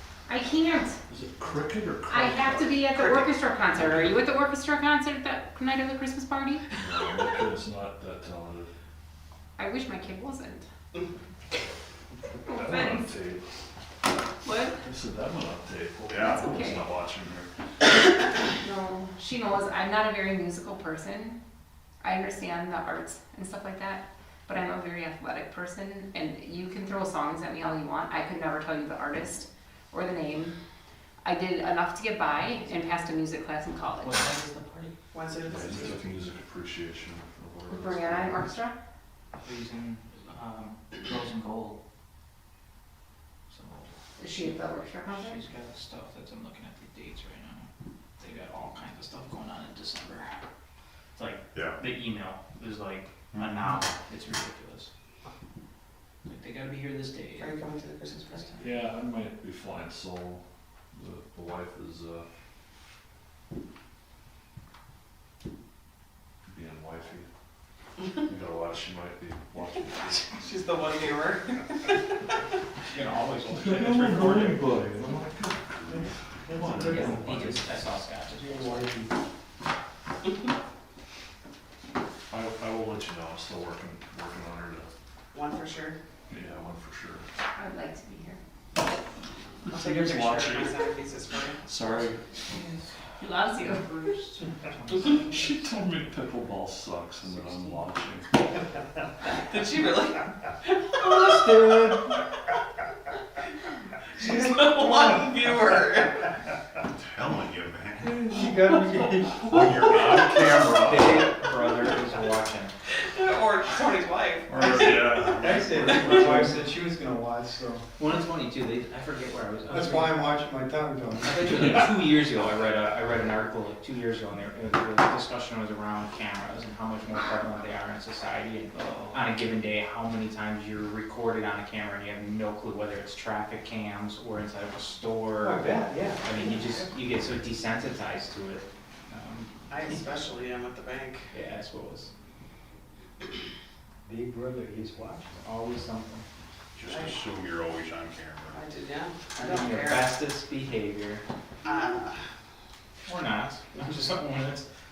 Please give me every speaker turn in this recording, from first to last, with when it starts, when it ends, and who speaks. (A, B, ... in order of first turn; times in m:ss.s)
0:00.3-0:01.0 A
0:01.1-0:02.8 B
0:02.1-0:06.7 A
0:03.8-0:04.1 B
0:06.8-0:08.7 B
0:09.6-0:10.6 A
0:12.4-0:13.1 A
0:12.5-0:13.4 B
0:14.4-0:14.8 A
0:14.8-0:17.5 B
0:16.3-0:16.8 A
0:18.6-0:21.4 A
0:22.0-0:30.6 A
0:31.2-0:34.3 A
0:32.4-0:32.9 C
0:34.0-0:34.9 C
0:35.1-0:36.0 D
0:35.4-0:38.5 B
0:37.7-0:38.8 A
0:39.4-0:41.8 C
0:43.5-0:47.6 C
0:44.2-0:45.4 A
0:48.2-0:50.4 C
0:51.1-0:54.9 C
0:51.5-0:51.8 E
0:53.3-0:53.6 E
0:56.2-0:58.7 C
0:57.4-0:58.5 D
0:58.6-1:00.4 B
1:00.9-1:02.2 B
1:06.5-1:07.2 B
1:08.2-1:10.3 B
1:10.3-1:12.3 D
1:12.9-1:14.6 C
1:13.5-1:17.8 B
1:15.9-1:17.3 F
1:16.8-1:18.9 C
1:18.4-1:19.2 F
1:22.3-1:24.9 B
1:25.3-1:26.0 D
1:26.3-1:27.2 B
1:27.5-1:28.4 A
1:29.7-1:30.8 B
1:29.7-1:31.7 D
1:31.6-1:32.2 B
1:32.5-1:35.5 C
1:33.2-1:33.8 A
1:35.0-1:38.3 B
1:39.2-1:41.7 D
1:41.0-1:42.2 F
1:44.1-1:46.3 D
1:47.0-1:48.3 E
1:48.0-1:50.3 F
1:49.5-1:51.2 E
1:50.6-1:52.7 C
1:52.9-1:55.2 D
1:54.5-1:55.4 B
1:55.2-1:56.0 E
1:55.4-1:57.8 F
1:56.1-1:56.5 B
1:58.0-2:00.2 C
1:59.7-2:01.8 F
2:01.2-2:19.7 C
2:15.4-2:17.0 F
2:19.7-2:21.4 D
2:21.3-2:22.1 C
2:24.0-2:25.4 F
2:25.4-2:26.2 C
2:26.7-2:28.6 E
2:26.8-2:27.2 D
2:28.5-2:30.2 D
2:29.4-2:31.2 C
2:31.6-2:32.2 D
2:33.0-2:34.7 C